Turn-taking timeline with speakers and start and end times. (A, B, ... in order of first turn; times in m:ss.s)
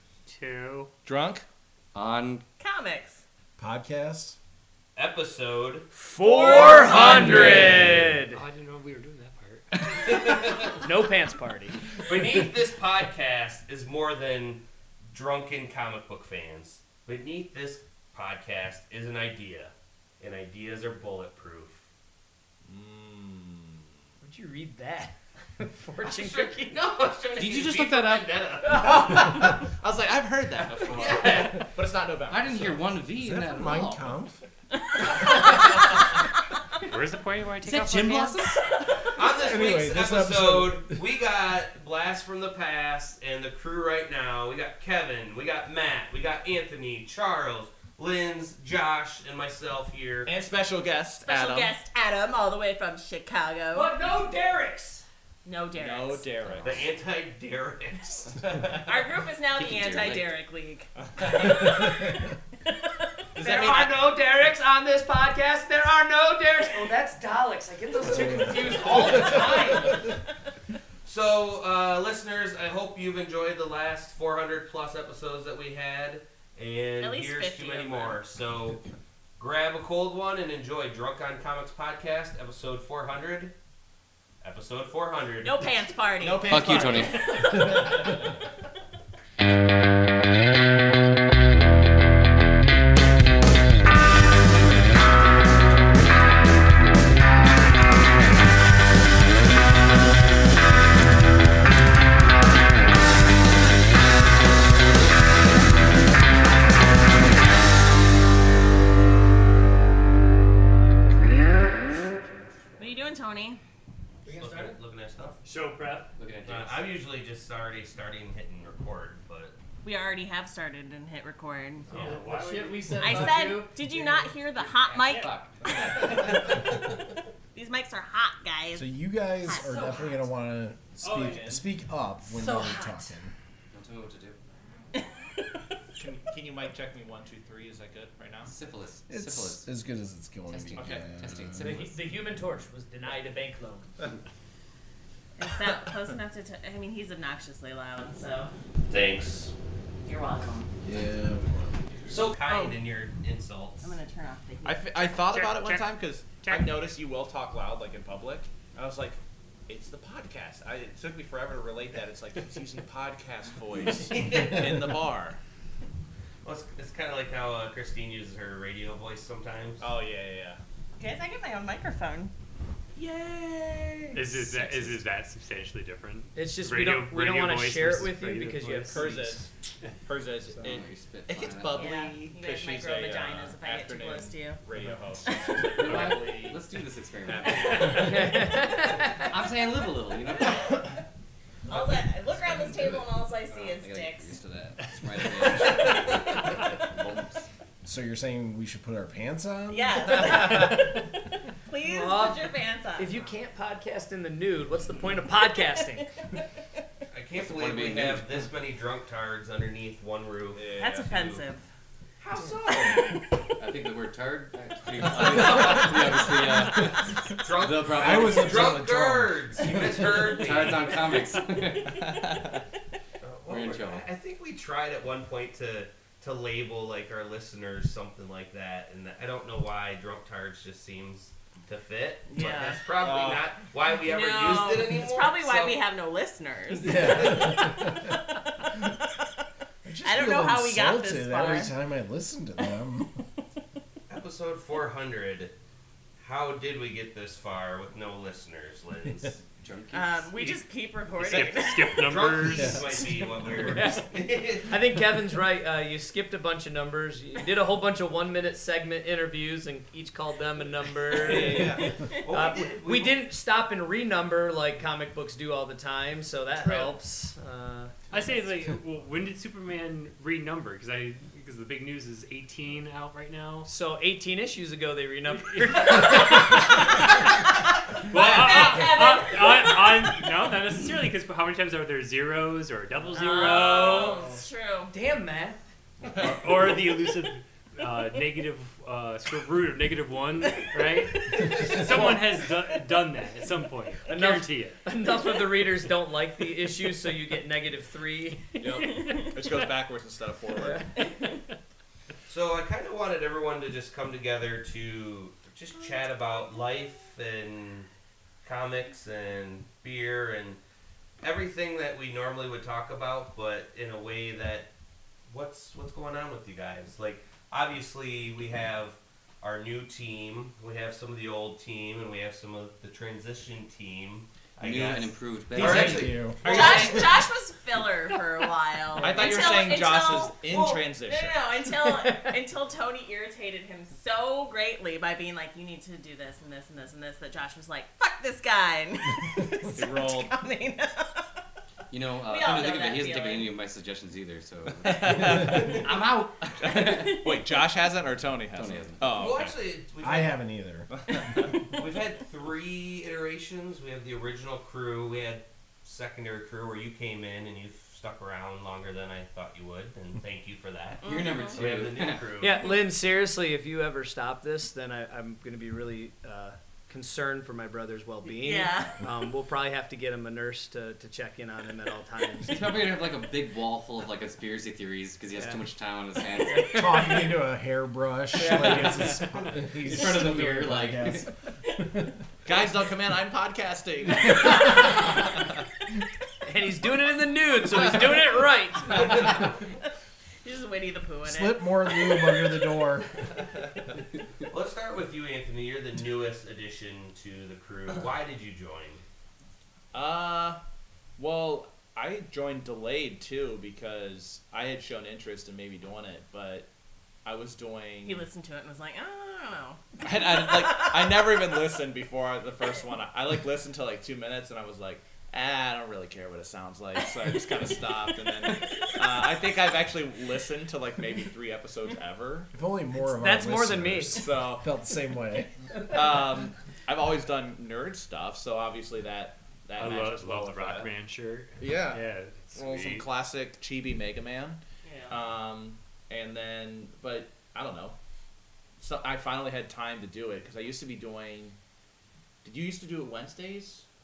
0:00.3-0:00.9 A
0:01.0-0:01.4 B
0:01.9-0:02.4 C
0:02.6-0:03.2 D
0:03.6-0:04.4 E
0:05.0-0:05.9 F
0:06.0-0:08.4 G
0:06.2-0:07.7 B
0:06.4-0:07.9 F
0:06.5-0:10.3 A
0:10.0-0:10.8 F
0:10.8-0:11.8 G
0:12.0-0:21.8 F
0:22.6-0:24.0 B
0:24.2-0:26.8 G
0:26.0-0:29.1 F
0:27.4-0:28.2 C
0:28.6-0:33.3 B
0:30.8-0:31.6 F
0:32.3-0:34.2 C
0:33.2-0:34.4 E
0:36.8-0:38.4 A
0:37.6-0:38.7 C
0:39.2-0:50.3 F
0:39.2-0:41.0 E
0:50.2-0:51.7 B
0:51.2-0:53.9 D
0:53.7-0:55.0 G
0:55.4-0:56.9 D
0:55.7-0:56.9 B
0:56.6-0:59.0 F
0:58.8-1:02.0 D
0:59.6-1:00.3 C
1:01.0-1:01.7 B
1:01.8-1:02.1 E
1:03.4-1:03.7 B
1:03.4-1:03.9 D
1:03.4-1:10.0 G
1:11.0-1:18.8 F
1:17.0-1:18.2 D
1:19.4-1:23.5 F
1:24.4-1:25.7 F
1:25.4-1:27.9 D
1:26.2-1:28.0 B
1:26.5-1:27.2 C
1:52.8-1:53.6 D
1:54.2-1:54.8 G
1:54.2-1:55.4 F
1:55.4-1:56.1 G
1:56.2-1:56.8 C
1:56.4-1:59.5 F
1:59.8-2:02.1 D
2:01.9-2:03.5 A
2:01.9-2:04.2 G
2:03.0-2:06.8 D
2:04.6-2:05.6 C
2:05.7-2:06.0 B
2:07.5-2:08.9 D
2:08.7-2:13.3 E
2:09.5-2:10.1 D
2:09.6-2:09.9 G
2:11.0-2:11.6 A
2:11.2-2:11.6 B
2:12.3-2:13.1 G
2:13.7-2:14.4 C
2:15.0-2:15.6 D
2:16.0-2:18.5 B
2:18.5-2:19.7 C
2:19.1-2:21.8 E
2:20.5-2:22.0 C
2:20.8-2:21.2 B
2:21.6-2:23.9 G
2:25.4-2:28.5 D
2:28.9-2:29.5 F
2:30.0-2:30.7 D
2:30.8-2:31.8 E
2:32.1-2:34.0 F
2:32.5-2:32.8 D
2:33.8-2:35.0 D
2:34.6-2:45.4 B
2:35.2-2:36.8 A
2:43.9-2:45.0 F
2:46.4-2:49.8 F
2:49.8-2:50.6 B
2:51.0-2:52.3 D
2:53.0-2:54.1 D
2:54.1-2:59.1 A
2:54.3-2:55.0 C
2:56.3-2:59.4 G
2:58.8-2:59.5 B
3:00.0-3:06.6 B
3:00.6-3:01.9 C
3:01.7-3:04.6 D
3:05.2-3:06.0 D
3:05.8-3:10.8 C
3:07.3-3:08.2 B
3:07.8-3:09.3 G
3:10.3-3:10.9 D
3:11.7-3:14.3 D
3:11.7-3:17.5 C
3:17.8-3:20.4 E
3:19.7-3:23.3 D
3:21.8-3:26.1 G
3:27.1-3:31.4 F
3:27.4-3:28.4 C
3:30.6-3:31.4 B
3:30.8-3:31.6 D
3:32.2-3:33.0 F
3:32.6-3:33.2 D
3:33.6-3:38.8 C
3:37.3-3:40.9 F
3:37.9-3:40.5 E
3:40.0-3:42.2 C
3:41.8-3:42.6 B
3:43.2-3:55.8 F
3:43.5-3:44.1 C
3:52.3-3:52.8 D
3:53.0-3:53.4 B
3:54.0-3:58.9 D
3:56.8-3:58.1 E
3:59.8-4:03.1 E
4:00.0-4:01.7 D
4:04.1-4:05.5 F
4:06.2-4:09.4 F
4:09.6-4:10.4 C
4:09.9-4:12.1 D
4:11.2-4:13.1 A
4:12.0-4:14.8 F
4:12.5-4:13.6 E
4:13.7-4:14.0 G
4:14.7-4:28.0 G
4:21.2-4:21.9 B
4:21.4-4:23.2 F
4:26.6-4:26.9 A
4:28.1-4:33.7 A
4:33.6-4:37.0 G
4:35.4-4:37.0 A
4:38.0-4:44.2 A
4:38.1-4:40.3 D
4:38.1-4:38.5 B
4:43.1-4:44.3 G
4:43.1-4:44.9 D
4:44.9-4:45.6 G
4:46.0-4:46.4 B
4:46.1-4:54.8 A
4:54.1-4:58.6 G
4:58.6-5:00.8 B
4:58.7-4:59.3 D
5:00.5-5:00.9 G
5:01.0-5:01.4 D
5:02.3-5:07.9 F
5:08.4-5:10.6 F
5:11.2-5:14.7 F
5:15.3-5:26.9 F
5:24.6-5:26.2 C
5:25.5-5:27.0 E
5:25.5-5:27.1 B
5:26.4-5:41.2 D
5:29.0-5:31.4 B
5:31.8-5:32.3 G
5:39.7-5:40.4 B
5:41.9-5:47.3 C
5:42.2-5:43.5 D
5:44.8-5:46.0 B
5:46.6-5:49.6 B
5:48.5-5:49.2 C
5:49.1-5:50.4 F
5:50.0-5:51.5 E
5:50.9-5:51.5 B
5:51.6-6:02.6 F
6:01.0-6:01.6 D
6:01.0-6:02.3 C
6:02.4-6:12.8 G
6:08.4-6:09.0 D
6:12.4-6:17.2 C
6:15.3-6:15.6 G
6:16.4-6:17.0 G
6:16.7-6:22.1 E
6:18.4-6:19.1 G
6:18.4-6:19.2 C
6:19.8-6:21.3 C
6:22.4-6:25.2 B
6:26.4-6:29.2 G
6:29.0-6:29.5 D
6:30.4-6:32.5 D
6:31.2-6:33.1 E
6:34.5-6:39.0 F
6:39.9-6:40.6 B
6:41.2-6:46.7 B
6:47.2-6:48.2 B
6:48.0-6:51.2 D
6:50.0-7:02.5 B
7:02.5-7:05.5 E
7:03.2-7:04.2 G
7:04.1-7:04.7 B
7:05.8-7:10.9 B
7:09.8-7:13.1 A
7:11.6-7:18.0 B
7:14.8-7:15.2 D
7:18.8-7:21.6 B
7:22.4-7:23.8 B